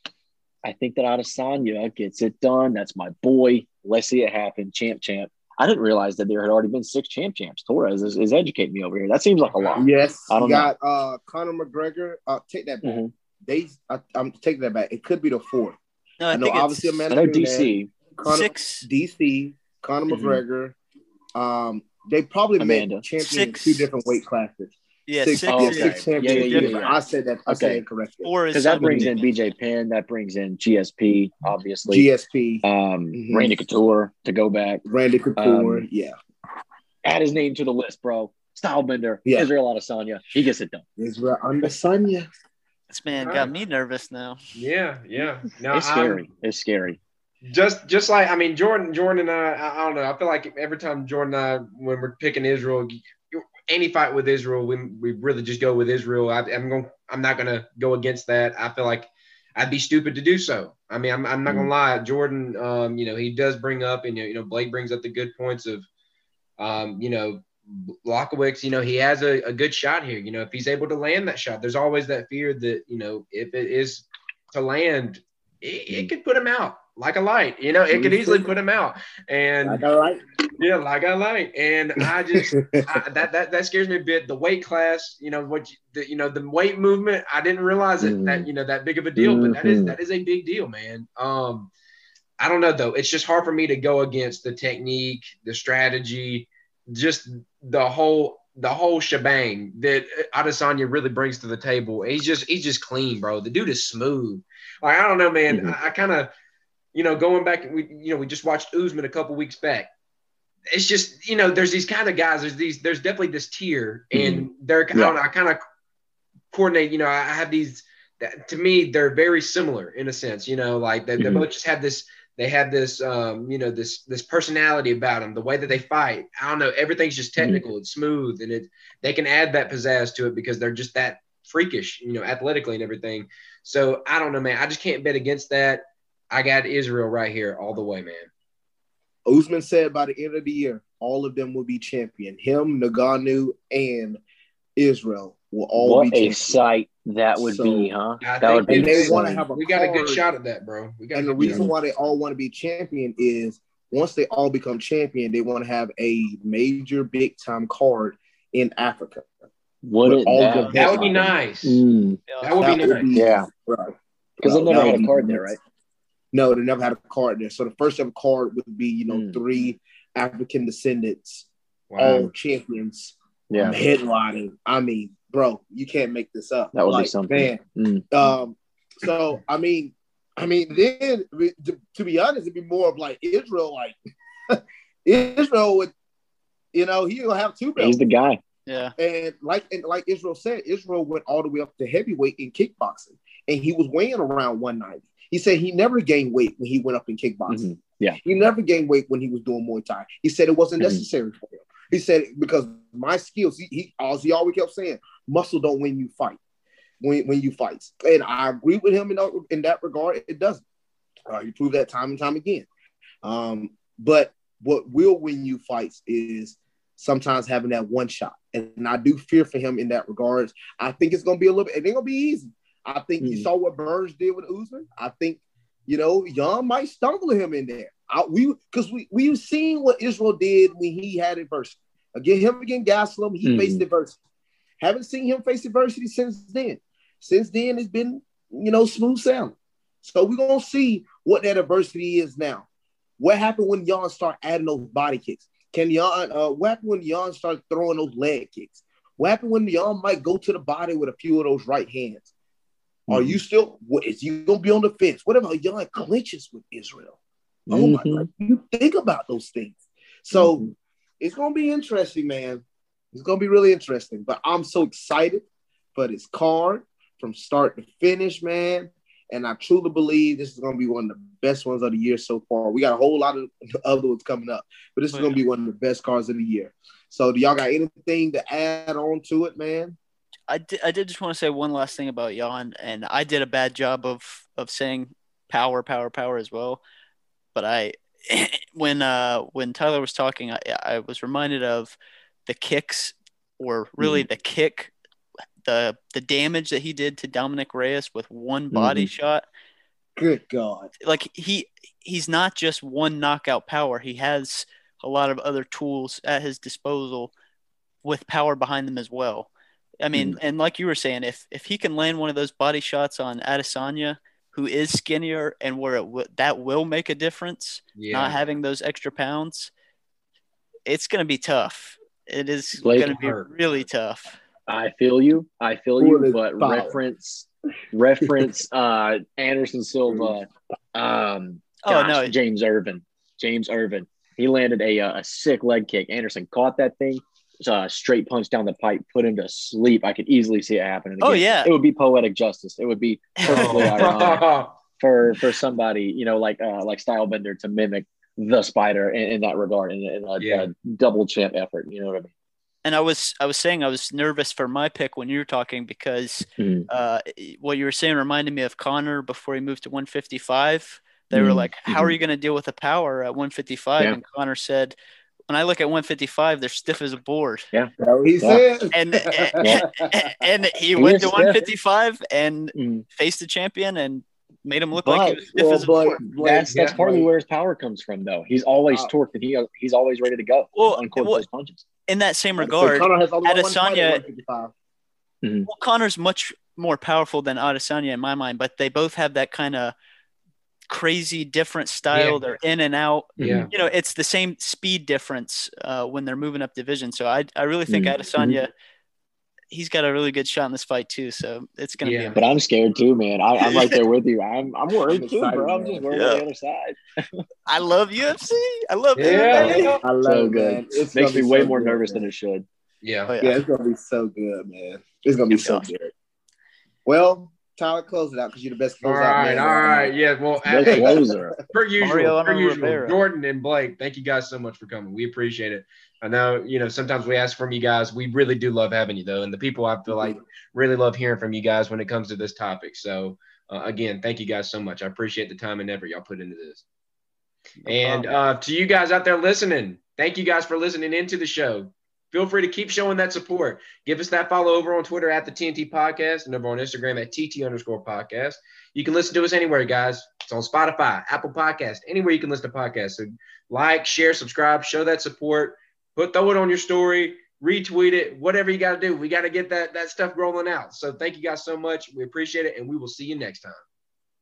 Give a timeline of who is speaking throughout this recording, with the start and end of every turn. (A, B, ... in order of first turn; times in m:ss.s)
0:00.6-0:10.7 A
0:09.4-0:09.8 B
0:09.8-0:15.8 C
0:12.8-0:13.1 A
0:16.2-0:17.1 D
0:16.3-0:20.8 C
0:17.1-0:17.9 A
0:18.2-0:18.8 D
0:20.1-0:20.4 A
0:21.3-0:29.1 C
0:22.6-0:23.0 A
0:23.2-0:23.9 D
0:25.1-0:26.9 D
0:25.5-0:27.0 A
0:27.5-0:27.8 A
0:28.2-0:29.2 D
0:28.5-0:32.0 A
0:31.9-0:33.6 C
0:32.6-0:34.8 A
0:34.8-0:36.2 C
0:35.4-0:35.8 A
0:37.0-0:40.8 A
0:39.2-0:39.5 C
0:41.0-0:42.3 C
0:42.9-0:44.4 D
0:43.2-0:43.5 B
0:44.5-0:46.3 B
0:45.7-0:47.0 A
0:47.5-1:05.8 B
1:06.6-1:19.8 B
1:17.9-1:18.5 C
1:19.6-1:20.2 C
1:20.6-1:31.7 B
1:22.3-1:23.0 C
1:28.0-1:28.5 A
1:29.2-1:30.0 A
1:32.4-1:46.3 B
1:45.5-1:45.7 A
1:46.9-1:49.9 B
1:50.7-1:55.6 B
1:54.1-1:55.2 A
1:56.5-2:18.3 B
2:01.2-2:01.4 A
2:07.4-2:07.6 A
2:19.2-2:24.2 C
2:24.8-2:26.6 C
2:25.8-2:29.4 A
2:27.4-2:27.9 C
2:28.2-2:31.7 B
2:28.6-2:30.2 C
2:31.1-2:39.3 C
2:31.4-2:31.7 A
2:39.8-2:42.2 A
2:40.0-2:41.3 C
2:40.7-2:41.8 B
2:42.3-2:42.5 D
2:42.4-2:43.1 B
2:42.6-2:45.6 C
2:43.1-2:43.5 A
2:44.4-2:45.6 A
2:46.3-2:51.5 C
2:49.1-2:49.4 A
2:51.9-2:52.3 B
2:52.0-2:57.6 C
2:53.5-2:53.8 A
2:56.7-2:58.1 A
2:58.1-3:04.0 C
3:04.5-3:05.9 C
3:06.7-3:08.0 C
3:07.8-3:08.4 A
3:08.7-3:08.9 D
3:09.0-3:17.6 C
3:17.5-3:18.2 A
3:18.2-3:26.4 C
3:20.8-3:21.0 A
3:27.0-3:30.6 C
3:31.3-3:32.7 C
3:33.2-3:54.2 C
3:43.2-3:43.5 A
3:53.4-3:53.8 A
3:54.8-4:02.7 C
4:03.2-4:12.3 C
4:13.1-4:13.4 A
4:13.1-4:17.2 C
4:17.7-4:18.3 A
4:17.7-4:20.6 C
4:20.3-4:20.7 A
4:21.2-4:40.0 C
4:35.1-4:35.4 D
4:40.5-4:46.8 D
4:47.5-4:54.9 D
4:54.0-4:54.2 A
4:55.6-4:59.4 D
4:58.7-4:59.1 A
5:00.2-5:00.9 C
5:01.0-5:07.3 D
5:08.0-5:09.5 D
5:10.0-5:19.7 D
5:18.0-5:18.4 B
5:20.9-5:24.4 D
5:22.8-5:23.1 A
5:22.9-5:23.5 B
5:24.7-5:44.5 A
5:26.0-5:27.0 C
5:30.1-5:30.4 C
5:31.8-5:32.4 D
5:41.2-5:41.7 D
5:43.4-5:44.3 D
5:43.5-5:44.8 B
5:45.0-5:52.3 A
5:50.4-5:50.7 B
5:52.8-6:05.0 D
5:56.6-5:56.8 A
6:01.3-6:02.1 A
6:05.5-6:07.7 D
6:07.7-6:08.6 A
6:08.0-6:10.3 C
6:08.9-6:16.2 D
6:09.6-6:09.8 A
6:11.0-6:11.6 A
6:12.7-6:13.0 A
6:15.1-6:15.4 A
6:15.1-6:17.3 C
6:16.2-6:21.8 A
6:16.7-6:17.0 B
6:20.7-6:21.4 D
6:22.1-6:24.2 D
6:22.6-6:24.7 C
6:25.4-6:25.7 A
6:25.6-6:29.9 D
6:30.9-6:38.7 D
6:32.1-6:32.4 B
6:33.4-6:33.7 A
6:33.4-6:33.7 B
6:37.9-6:38.6 A
6:39.7-6:42.4 D
6:42.0-6:42.4 B
6:42.3-6:47.4 A
6:45.0-6:46.1 C
6:46.1-6:46.4 D
6:47.7-6:50.0 D
6:49.2-6:50.0 B
6:49.3-6:52.3 C
6:49.7-6:52.6 A
6:53.0-6:53.3 B
6:53.3-6:53.6 D
6:53.4-6:56.1 C
6:55.5-6:55.8 D
6:57.0-7:00.1 C
6:59.0-7:01.2 B
7:00.6-7:01.6 A
7:00.8-7:01.5 C
7:01.7-7:16.8 B
7:02.0-7:03.2 D
7:10.1-7:10.3 C
7:17.8-7:43.8 B
7:18.0-7:18.3 D